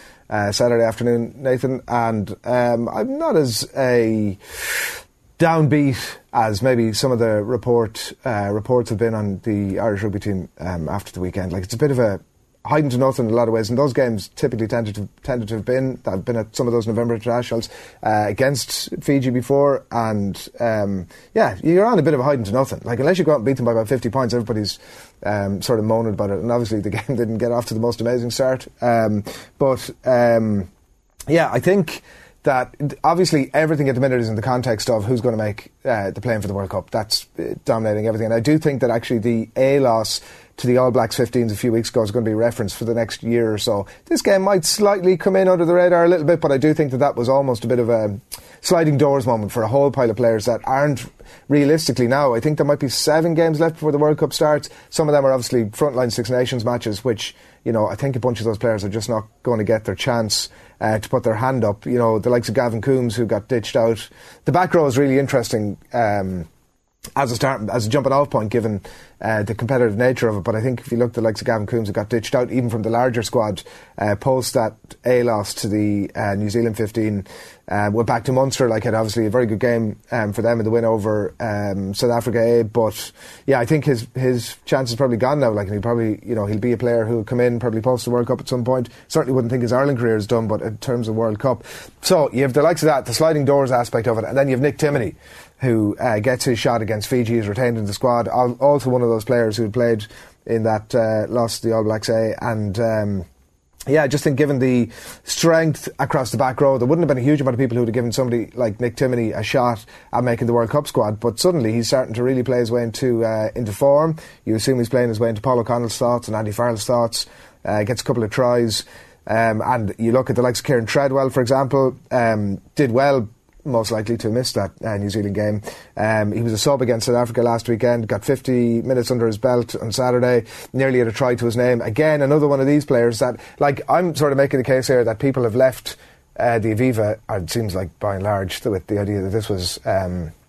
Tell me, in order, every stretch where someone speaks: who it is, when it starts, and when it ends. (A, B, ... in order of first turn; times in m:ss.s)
0:00.3-0:30.7 A
0:31.3-1:06.5 A
1:07.2-1:43.3 A
1:43.9-2:20.3 A